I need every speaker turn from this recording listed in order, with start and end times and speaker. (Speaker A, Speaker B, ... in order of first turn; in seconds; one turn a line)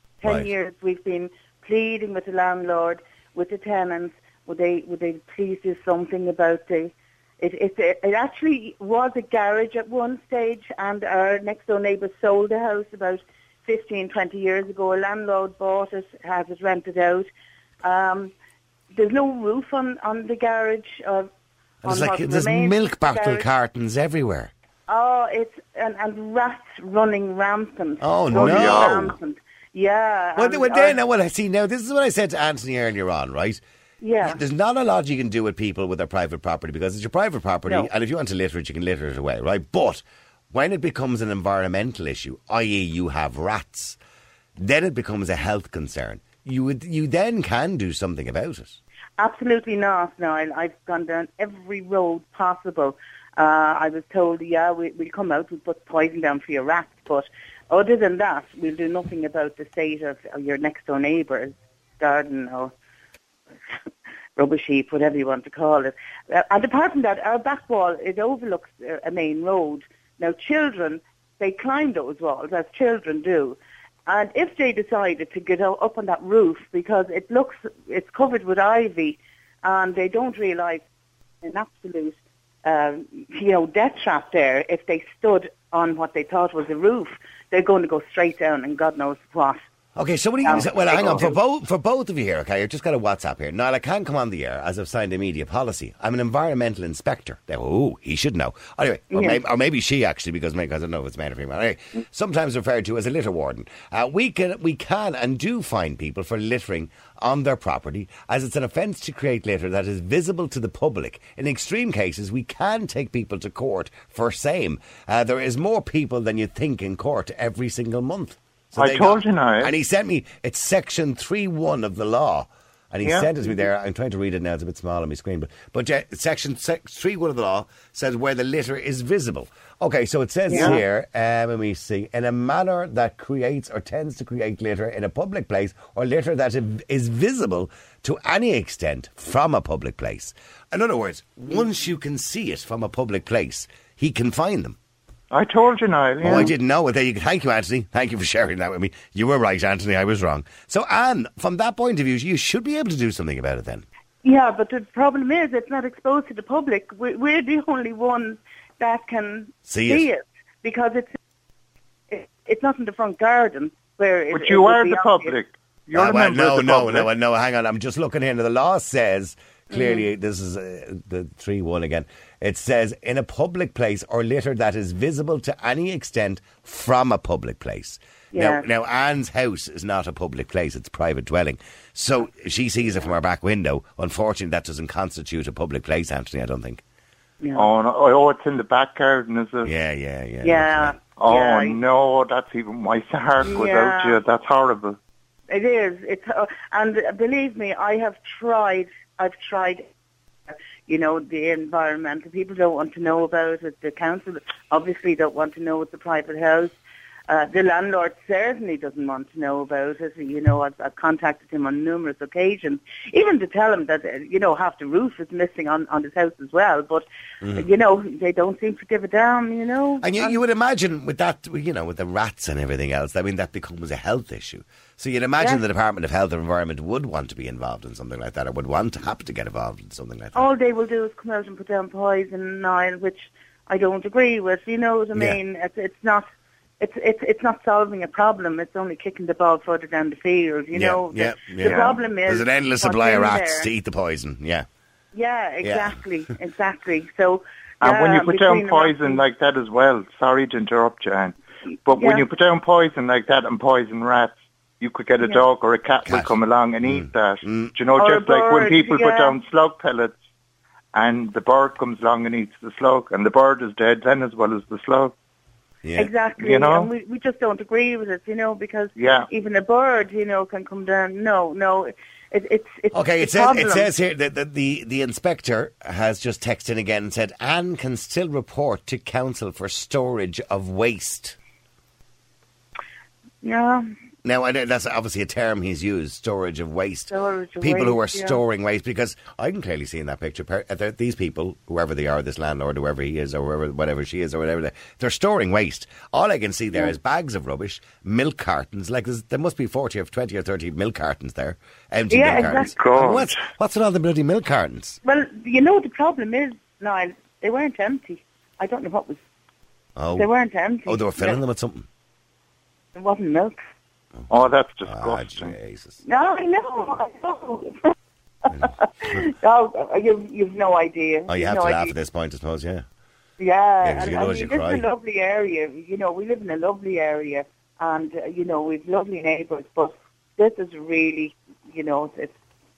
Speaker A: 0.2-17.3
Speaker A: 17.8-18.3
Speaker A: 18.9-21.3
Speaker B: 21.8-24.5
Speaker A: 21.8-23.4
Speaker A: 24.9-31.0
Speaker B: 28.0-29.1
Speaker C: 28.3-29.1
Speaker B: 30.4-33.6
Speaker A: 34.0-34.4
Speaker B: 34.2-44.0
Speaker B: 44.6-48.8
Speaker A: 49.2-62.7
Speaker A: 64.3-80.8
Speaker A: 81.4-89.6
Speaker B: 90.0-144.8
Speaker A: 90.4-91.3
Speaker A: 99.1-99.4
Speaker C: 118.8-119.7
Speaker C: 123.0-123.3
Speaker A: 130.5-130.7
Speaker C: 130.5-130.8
Speaker C: 145.3-146.5
Speaker B: 146.2-153.8
Speaker A: 154.2-161.1
Speaker B: 159.7-160.1
Speaker A: 162.1-165.3
Speaker C: 164.3-167.1
Speaker B: 165.9-186.8
Speaker A: 169.7-170.1
Speaker A: 178.3-178.7
Speaker A: 187.4-187.7
Speaker C: 187.5-189.7
Speaker B: 189.6-191.0
Speaker A: 190.4-191.8
Speaker C: 191.2-195.0
Speaker A: 193.4-194.2
Speaker A: 195.5-199.9
Speaker A: 200.5-206.8
Speaker A: 207.3-220.4
Speaker B: 217.4-217.7
Speaker B: 220.0-230.4
Speaker A: 230.3-236.3
Speaker A: 236.8-243.7
Speaker B: 240.7-244.7
Speaker C: 241.6-241.9
Speaker A: 245.1-249.2
Speaker B: 245.6-246.0
Speaker C: 247.8-260.2
Speaker A: 251.9-252.2
Speaker B: 256.1-256.3
Speaker B: 256.9-257.7
Speaker A: 258.0-259.4
Speaker C: 260.9-265.1
Speaker B: 265.8-266.1
Speaker A: 265.9-273.9
Speaker C: 266.4-266.9
Speaker C: 269.0-269.3
Speaker B: 272.9-281.4
Speaker A: 283.4-283.9
Speaker B: 284.2-305.0
Speaker A: 287.1-288.4
Speaker A: 302.1-302.8
Speaker C: 302.6-303.4
Speaker A: 305.0-309.2
Speaker B: 309.9-310.3
Speaker A: 310.1-311.4
Speaker B: 310.9-311.9
Speaker A: 312.9-313.6
Speaker B: 314.2-316.0
Speaker C: 314.3-315.5
Speaker A: 316.0-317.9
Speaker A: 318.4-321.9
Speaker B: 318.5-319.2
Speaker B: 321.3-322.8
Speaker A: 323.4-332.4
Speaker B: 323.8-324.8